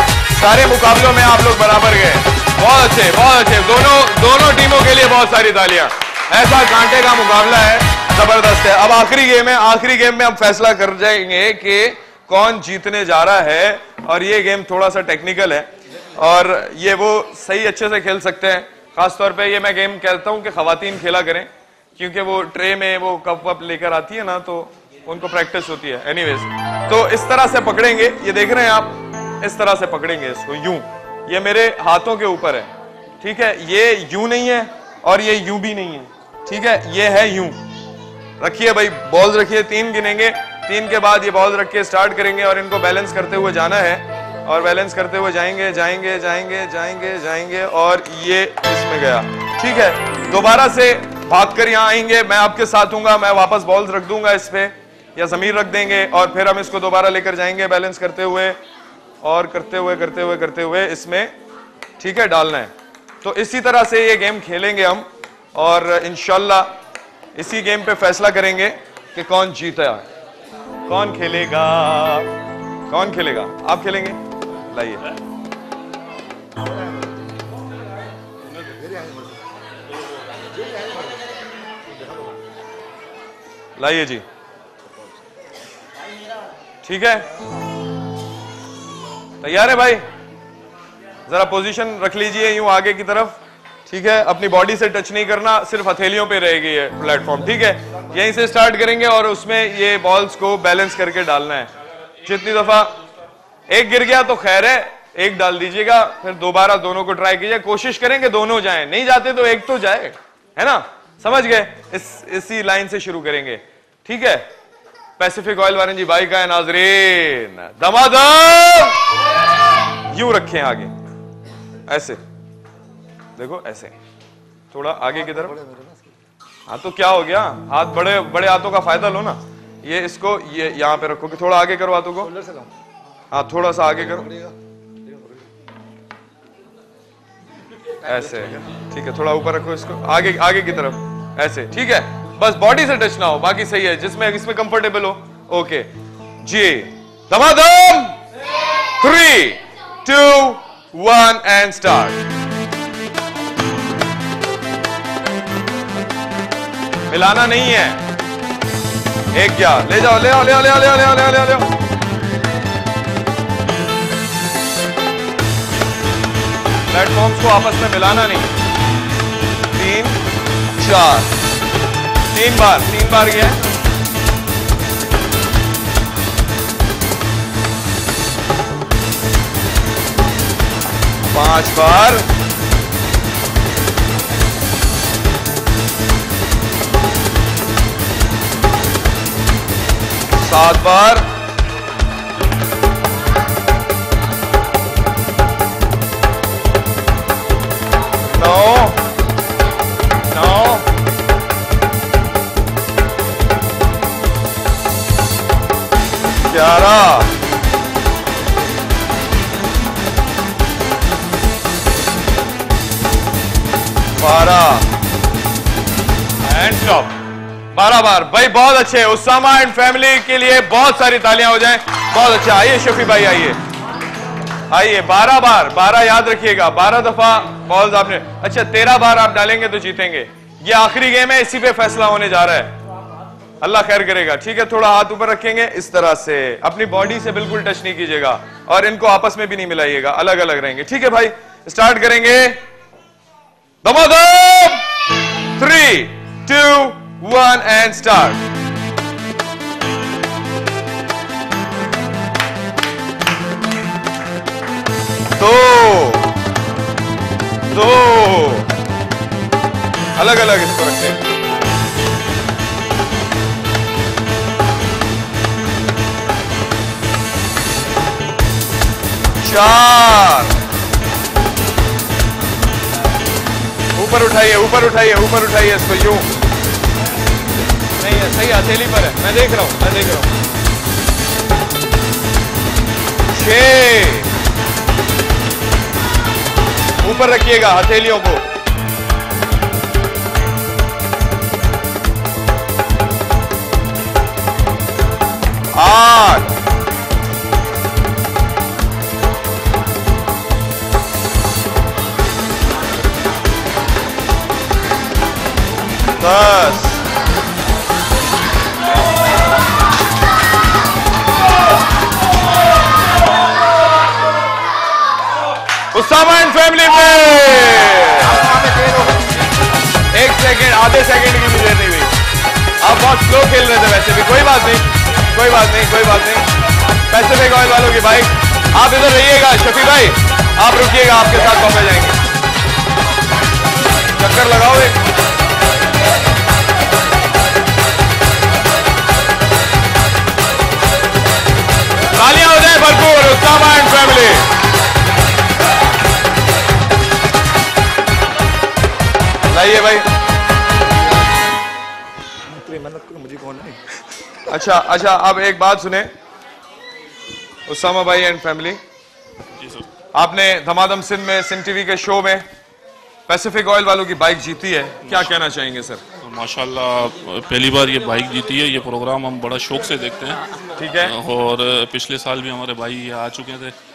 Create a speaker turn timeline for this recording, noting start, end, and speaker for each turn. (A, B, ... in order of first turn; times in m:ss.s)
0:00.3-0:32.7 A
0:33.2-0:37.6 A
0:38.4-0:58.6 A
0:59.2-1:01.3 A
1:02.0-1:02.7 A
1:03.2-1:06.7 A
1:07.3-1:10.0 A
1:10.9-1:12.3 A
1:12.9-1:15.0 A
1:16.6-1:17.4 B
1:18.4-1:19.5 B
1:20.4-1:21.3 B
1:21.8-1:22.5 B
1:23.8-1:24.2 A
1:26.8-1:27.2 A
1:29.4-1:30.0 A
1:31.3-1:41.7 A
1:42.2-1:43.0 A
1:43.7-1:54.4 A
1:55.2-1:59.0 A
2:00.1-2:00.9 A
2:01.9-2:02.2 A
2:03.4-2:03.9 A
2:04.7-2:05.5 A
2:05.1-2:06.2 B
2:06.7-2:12.3 A
2:12.2-2:12.7 B
2:13.3-2:14.3 A
2:14.1-2:14.5 B
2:18.0-2:18.6 B
2:18.0-2:25.9 A
2:26.4-2:28.2 A
2:29.0-2:32.2 A
2:37.1-2:38.0 A
2:39.3-2:41.7 A
2:46.9-2:48.5 A
2:49.7-2:50.2 A
2:50.8-2:51.3 A
2:52.3-2:53.6 A
3:01.3-3:02.2 A
3:10.3-3:11.2 A
3:18.3-3:19.0 A
3:20.2-3:20.8 A
3:26.5-3:27.3 A
3:34.2-3:34.8 A
3:36.4-3:37.1 A
3:37.7-3:43.6 A
3:44.7-3:52.7 A
3:53.6-4:02.6 A
4:03.8-4:04.8 A
4:05.6-4:08.4 A
4:15.4-4:16.3 A
4:17.7-4:18.6 A
4:20.2-4:21.2 A
4:29.4-4:30.5 A
4:34.0-4:36.3 A
4:38.0-4:40.4 A
4:43.3-4:44.3 A
4:47.0-4:48.4 A
4:55.7-4:56.5 A
5:06.2-5:07.0 A
5:15.9-5:18.6 A
5:18.4-5:19.5 B
5:20.1-5:22.1 A
5:22.8-5:26.4 A
5:27.1-5:32.2 A
5:34.2-5:35.0 A
5:42.1-5:44.5 A
5:49.5-5:50.0 A
5:52.4-5:54.7 B
5:54.5-5:56.1 A
5:57.7-5:58.8 A
5:59.6-5:59.8 C
6:00.1-6:02.4 A
6:03.3-6:06.0 A
6:05.1-6:05.4 C
6:06.2-6:10.4 C
6:10.8-6:11.1 A
6:11.0-6:13.7 C